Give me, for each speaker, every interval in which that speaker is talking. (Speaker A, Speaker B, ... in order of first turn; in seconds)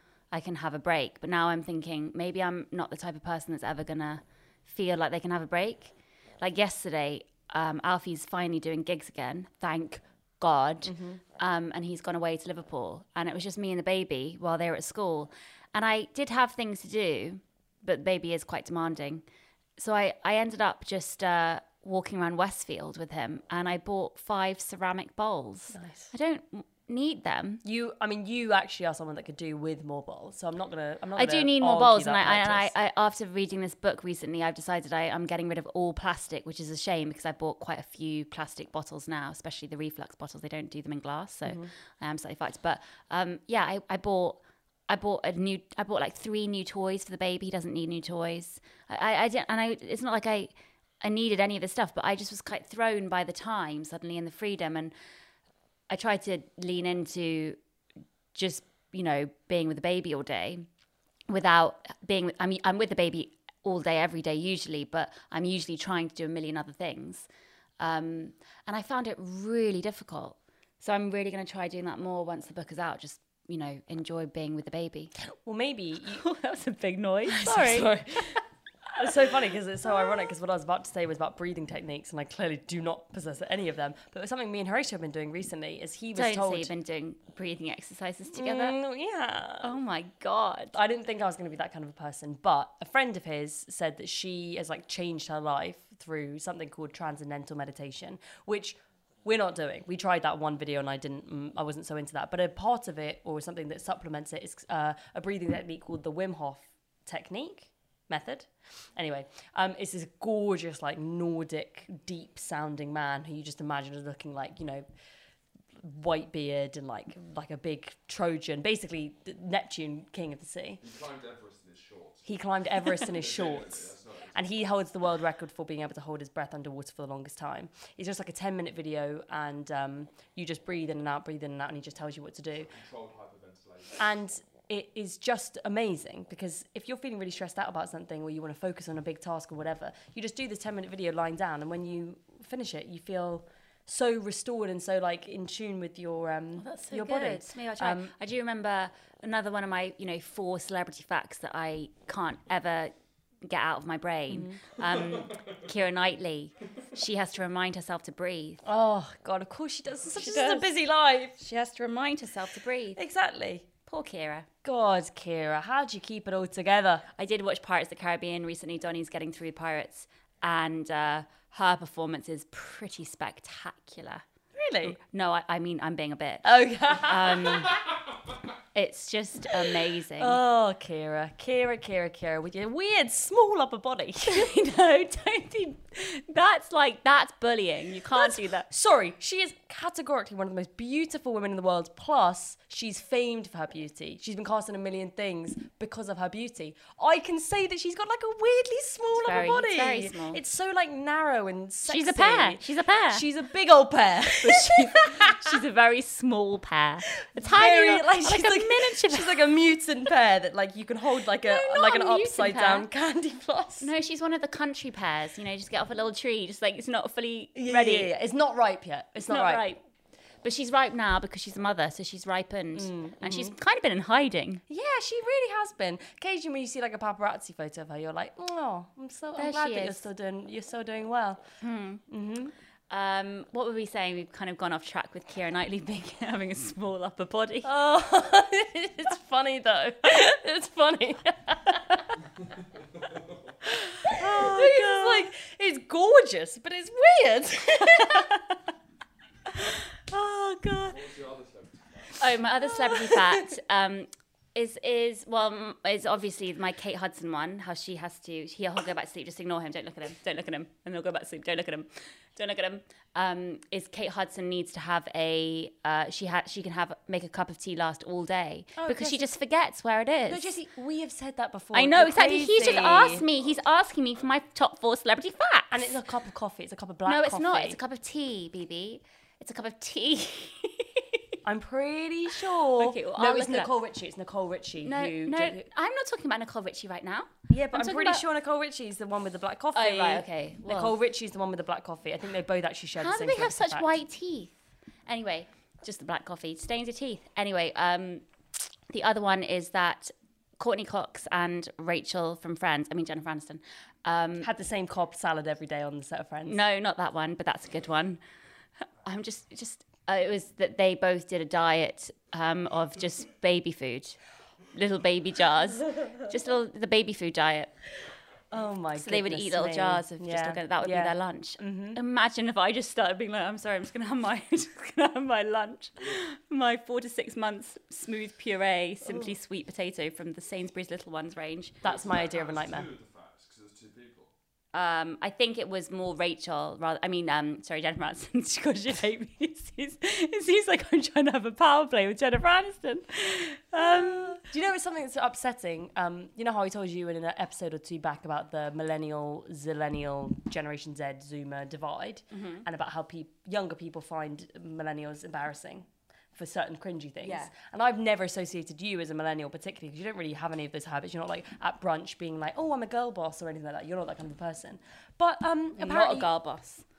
Speaker A: 0.3-19.2, 19.8-27.6, 31.2-54.9, 55.9-57.6, 58.3-60.7, 61.3-67.3, 67.8-75.1, 76.1-78.4, 86.1-88.8, 89.6-90.8, 146.6-158.6, 160.1-160.7, 161.4-163.0, 163.9-164.5, 167.2-174.2, 174.8-177.8, 178.8-180.4, 184.2-188.7, 199.1-200.4, 201.9-203.2, 204.4-209.4, 211.4-212.9, 213.8-218.1, 219.2-219.8, 220.4-224.6, 229.4-230.0, 231.6-232.0, 232.9-237.7, 244.1-245.3, 248.0-248.3, 250.1-250.9, 252.2-270.5, 271.7-275.9, 277.1-281.2, 282.7-283.7, 284.8-288.2, 289.8-290.9, 293.0-294.6, 295.1-298.2, 298.9-304.5, 306.5-308.2, 309.0-314.2, 314.7-317.7, 319.0-331.8, 334.7-344.4, 352.3-352.6, 357.2-357.5, 365.8-366.8
Speaker B: 10.8-11.2, 25.7-26.1, 27.6-32.7, 41.5-41.7, 75.2-76.2, 77.2-78.4, 79.0-86.7, 88.3-89.7, 90.7-114.8, 115.8-120.8, 122.2-132.7, 134.0-148.1, 154.3-154.6, 158.6-161.4, 163.0-163.7, 164.6-167.1, 174.6-175.0, 176.4-177.7, 180.2-184.6, 188.1-205.6, 207.2-213.9, 217.6-219.6, 222.8-223.6, 224.7-231.4, 232.1-232.5, 237.6-242.2, 244.1-248.3, 252.8-253.5, 268.8-269.3, 270.3-273.2, 275.7-277.8, 281.4-285.6, 287.5-294.0, 304.4-306.6, 318.5-322.0, 329.1-329.4, 331.8-332.9, 343.8-366.3
Speaker C: 120.8-124.7, 132.7-134.1, 250.9-252.3, 331.8-334.3